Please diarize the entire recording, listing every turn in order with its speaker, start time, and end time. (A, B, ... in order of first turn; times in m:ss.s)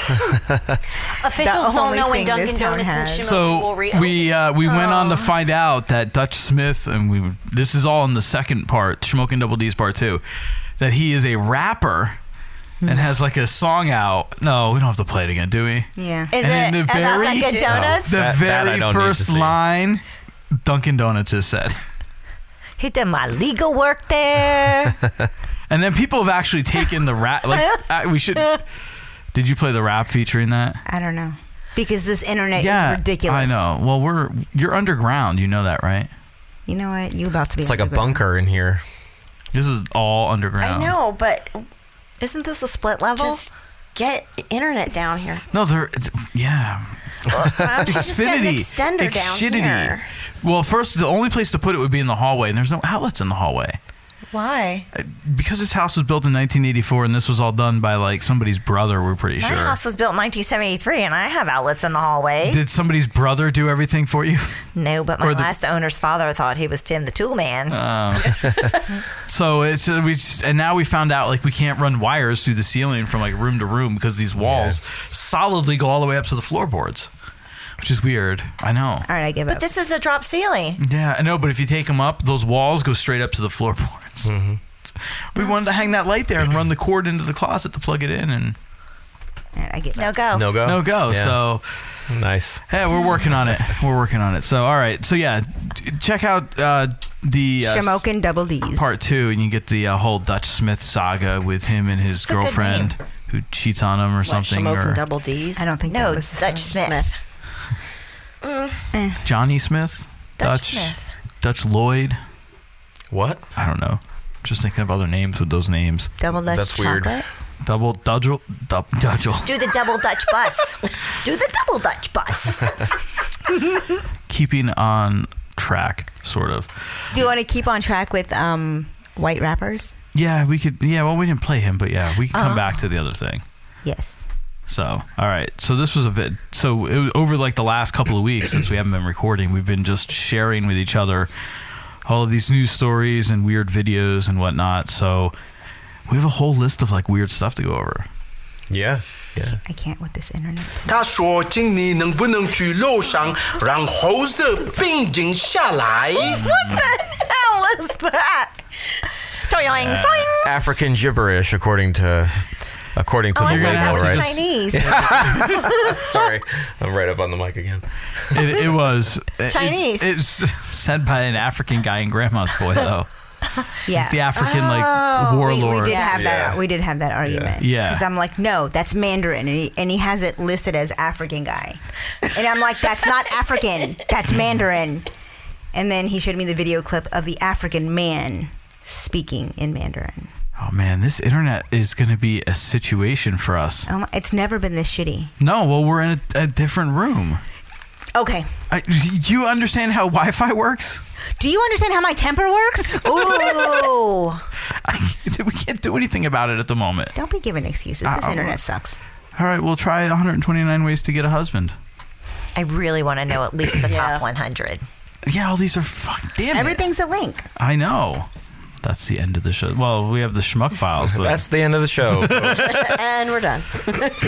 0:01.2-0:04.4 A
0:01.4-0:03.4 B
0:03.2-0:10.2 C
0:10.8-0:12.2 C
0:12.8-0:13.1 B
0:12.8-0:20.0 C
0:16.0-0:16.3 B
0:16.3-0:18.2 D
0:17.7-0:19.6 E
0:20.6-0:21.8 C
0:22.8-0:25.0 D
0:25.7-0:28.6 C
0:29.3-0:30.8 C
0:30.9-0:33.6 B
0:32.6-0:36.1 C
0:36.7-0:38.2 B
0:37.6-0:38.8 E
0:39.5-0:41.0 C
0:40.6-0:41.7 F
0:42.2-0:43.4 D
0:43.2-0:45.4 F
0:45.5-0:46.9 C
0:47.3-0:50.1 F
0:47.6-0:53.8 C
0:54.3-0:54.9 D
0:54.9-0:59.8 C
0:59.4-1:02.6 D
1:02.4-1:04.6 C
1:04.8-1:07.8 D
1:05.2-1:05.5 C
1:07.7-1:08.6 C
1:09.3-1:17.1 C
1:14.4-1:14.8 E
1:17.8-1:19.1 C
1:19.1-1:19.7 B
1:19.5-1:20.8 D
1:20.8-1:24.3 C
1:24.2-1:24.6 E
1:25.3-1:28.6 C
1:29.6-1:30.2 B
1:30.0-1:30.5 D
1:30.3-1:31.4 E
1:30.6-1:31.7 C
1:32.1-1:32.7 E
1:32.7-1:38.1 C
1:37.6-1:38.9 B
1:38.8-1:45.0 C
1:42.3-1:42.9 D
1:44.2-1:45.8 F
1:45.6-1:46.8 B
1:45.9-1:47.2 D
1:46.5-1:47.1 F
1:48.4-1:48.7 F
1:48.9-1:49.2 B
1:49.2-1:52.2 C
1:50.4-1:51.1 D
1:53.1-1:53.4 E
1:53.6-1:56.1 C
1:56.2-1:57.3 B
1:56.5-1:57.2 E
1:57.6-1:59.5 C
1:59.4-2:02.7 D
2:04.3-2:06.9 C
2:07.1-2:10.0 B
2:10.1-2:13.4 C
2:12.3-2:12.6 D
2:13.8-2:14.2 B
2:14.7-2:21.3 C
2:22.0-2:25.3 C
2:26.1-2:28.1 C
2:28.7-2:29.6 E
2:29.5-2:31.0 B
2:30.9-2:36.4 G
2:36.3-2:36.9 C
2:36.5-2:38.5 D
2:39.4-2:40.5 D
2:39.7-2:40.3 C
2:40.4-2:48.4 E
2:43.4-2:46.0 D
2:43.4-2:45.4 C
2:48.3-2:53.1 C
2:49.5-2:50.1 D
2:53.9-2:54.3 B
2:54.0-2:56.0 C
2:54.4-2:56.3 F
2:55.4-3:05.1 B
2:56.1-2:56.6 E
2:57.2-2:57.6 E
2:57.6-2:58.1 C
3:05.7-3:10.3 B
3:10.6-3:13.9 C
3:13.9-3:15.3 B
3:15.4-3:17.4 C
3:18.2-3:18.5 B
3:18.7-3:21.0 C
3:21.4-3:24.4 B
3:23.2-3:24.0 D
3:24.8-3:27.2 C
3:27.2-3:29.0 B
3:28.0-3:28.6 C
3:29.4-3:31.8 C
3:32.6-3:34.8 D
3:33.8-3:34.3 F
3:35.3-3:36.8 C
3:36.5-3:37.4 B
3:37.6-3:38.3 C
3:38.8-3:41.5 C
3:41.0-3:42.6 E
3:42.1-3:42.8 C
3:42.6-3:44.0 F